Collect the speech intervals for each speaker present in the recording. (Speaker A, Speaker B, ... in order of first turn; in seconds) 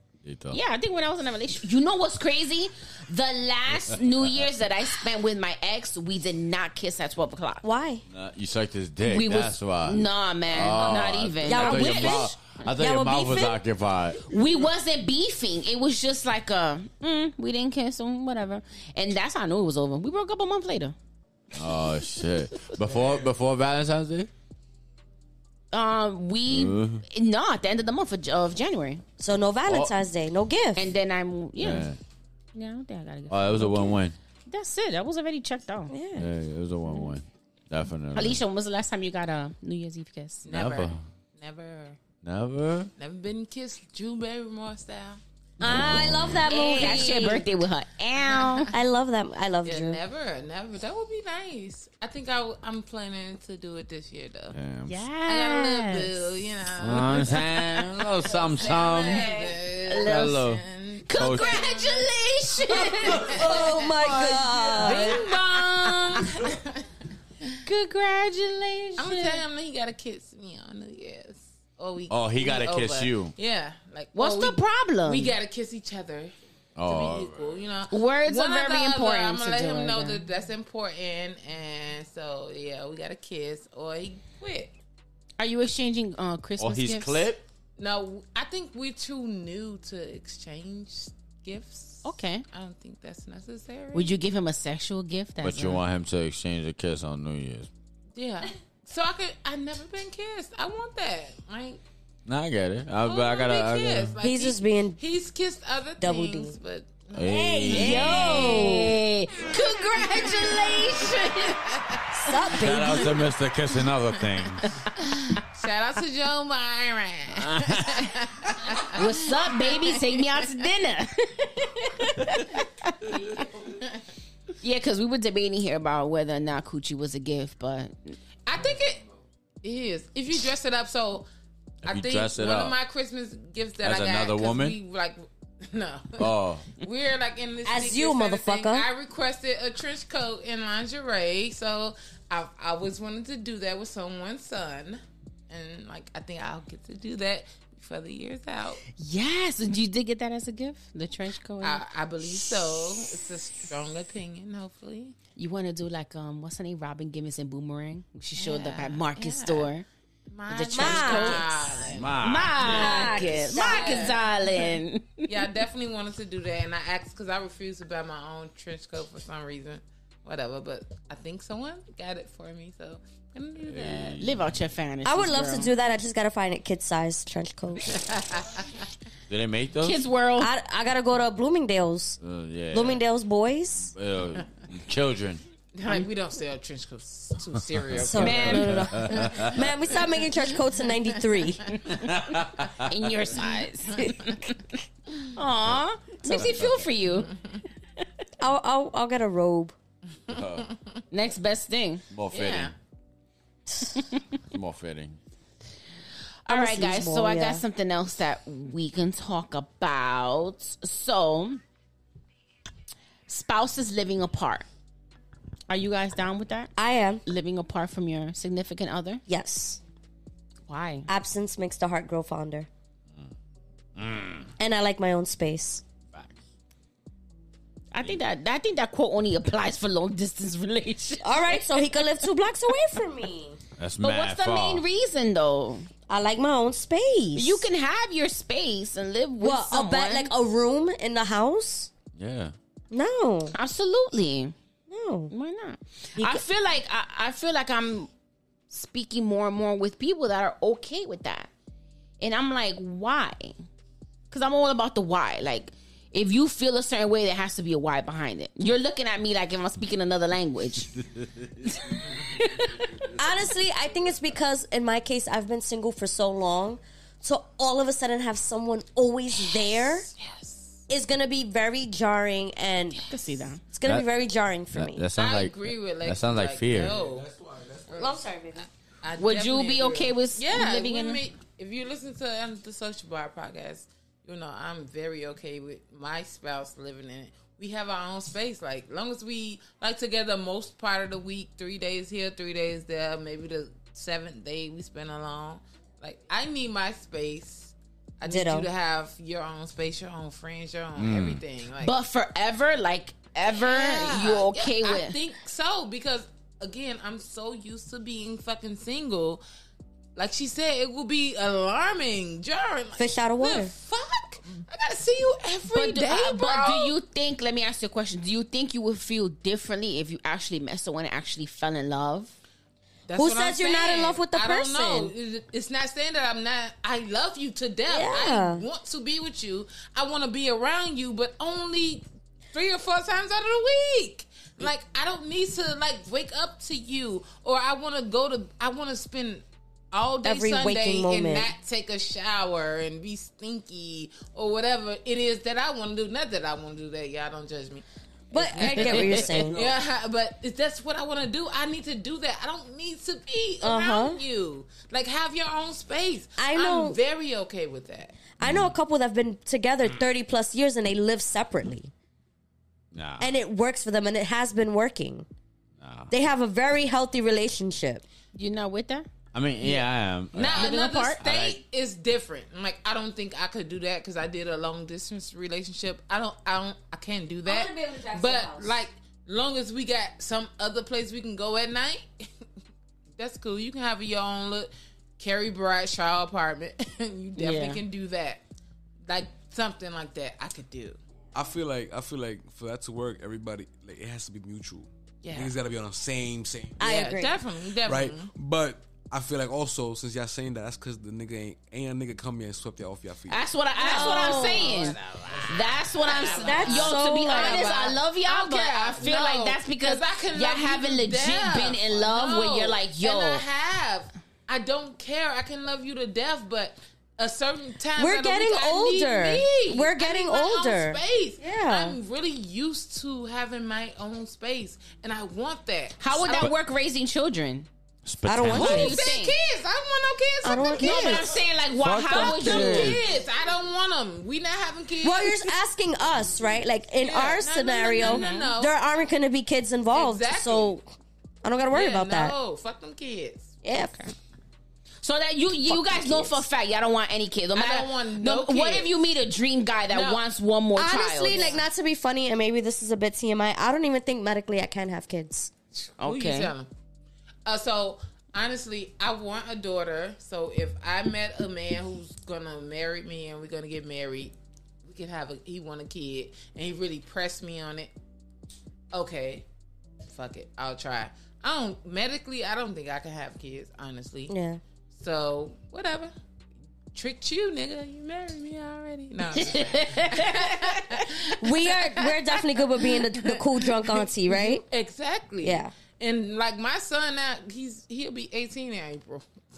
Speaker A: 0.2-0.6, 8.1-14.2, 21.5-24.3, 26.5-27.0, 29.7-29.9, 31.6-32.0, 33.3-34.1, 36.2-38.4, 40.5-41.0, 42.2-42.9, 45.6-46.4, 54.5-55.0, 56.8-59.4, 60.0-61.6, 72.1-73.3, 76.8-77.6, 86.6-87.5, 95.4-97.7, 102.3-104.1, 107.1-108.5, 112.5-114.8, 117.4-118.1, 131.8-132.8, 133.8-134.8, 136.2-136.6, 161.9-163.2, 173.7-174.5, 179.3-180.0, 182.2-183.0, 183.9-185.4, 187.9-189.6, 191.9-193.1, 196.3-196.9, 200.3-200.7, 202.1-202.7, 204.4-205.2, 224.0-224.5, 226.1-226.4, 233.8-234.8, 242.2-242.5, 274.7-276.9, 301.0-301.4, 358.4-358.7, 362.9-363.3, 365.8-366.1, 369.3-371.6, 428.1-429.0, 431.8-433.0
Speaker B: 0.5-7.6, 9.1-12.3, 14.3-21.0, 25.7-29.0, 30.8-31.9, 32.5-35.9, 38.1-40.5, 46.5-48.7, 54.9-56.2, 59.9-60.4, 61.1-63.5, 64.7-66.3, 67.6-69.4, 74.1-75.3, 77.9-80.2, 85.4-87.3, 92.0-92.5, 93.9-95.8, 107.3-111.8, 118.9-123.4, 124.6-128.2, 149.0-151.8, 155.4-159.9, 160.5-165.3, 174.2-175.7, 179.8-180.5, 188.2-188.8, 192.8-194.6, 195.3-197.3, 201.1-202.0, 203.9-204.2, 206.4-211.6, 213.3-214.7, 215.7-216.7, 217.3-219.2, 220.7-221.1, 227.9-232.1, 234.0-235.9, 237.4-240.3, 243.5-244.6, 245.3-248.1, 248.7-251.5, 252.2-253.6, 254.3-260.9, 261.8-263.1, 273.1-273.6, 279.2-281.2, 301.8-305.2, 315.7-322.3, 348.6-349.1, 368.4-369.1, 370.5-371.2, 387.4-387.8, 403.3-413.4, 426.0-427.7, 428.5-429.4, 430.8-433.0, 438.0-438.5, 445.0-451.6, 456.0-456.5, 479.3-481.1
Speaker C: 7.6-8.0, 11.4-13.6, 29.2-30.9, 35.9-36.3, 45.6-47.5, 48.7-50.0, 63.2-65.3, 104.2-105.0, 106.0-106.6, 107.6-109.0, 112.2-113.2, 137.7-138.9, 160.7-161.8, 162.7-164.1, 175.1-178.0, 180.4-182.2, 182.7-183.9, 188.0-191.7, 196.2-196.6, 198.4-199.8, 206.5-207.6, 216.8-217.2, 219.3-219.8, 221.1-222.7, 224.6-225.8, 231.2-233.6, 236.1-237.7, 239.4-241.9, 242.9-243.5, 244.9-245.3, 246.2-246.4, 263.1-270.1, 270.9-273.0, 273.6-275.1, 278.0-278.7, 298.2-298.7, 313.0-313.7, 323.2-325.1, 327.9-328.6, 340.2-341.5, 348.3-349.6, 353.6-354.2, 356.4-357.0, 358.4-361.9, 363.2-365.3, 366.1-368.0, 377.5-378.7, 396.8-397.4, 403.8-404.9, 406.3-407.9, 418.0-422.0, 428.3-429.0, 430.4-431.3, 435.0-440.9, 441.4-442.4, 443.6-444.1, 445.7-446.4, 450.8-455.5, 474.3-474.6, 481.4-484.6, 485.4-485.7
Speaker D: 22.9-23.2, 276.7-278.2, 348.8-349.8, 391.3-396.8, 397.8-403.5
Speaker E: 40.5-42.0, 43.0-45.2, 48.3-48.7, 49.6-54.6, 55.3-63.9, 64.7-66.8, 69.0-76.3, 76.8-84.7, 87.8-94.2, 98.2-101.8, 103.0-108.0, 109.5-112.3, 115.0-120.3, 123.6-123.9, 128.5-129.0, 129.6-131.3, 131.8-148.8, 151.6-155.2, 158.4-159.7, 160.3-164.7, 165.3-174.2, 177.9-178.6, 185.8-189.6, 194.0-194.4, 197.3-197.6, 200.3-200.8, 202.3-202.7, 269.4-270.8, 275.2-277.3, 277.9-301.9, 303.5-309.4, 310.2-316.9, 323.1-358.2, 369.6-382.1, 383.2-388.4, 389.1-391.0, 395.2-395.5, 396.8-398.3, 403.8-426.5, 428.6-431.4, 432.1-435.5, 437.0-438.7, 439.9-440.8, 441.7-443.6, 447.6-448.9, 449.9-450.2, 451.2-451.6, 455.8-456.7, 457.5-467.9, 468.9-469.5, 470.1-474.4, 474.9-476.1, 476.9-489.3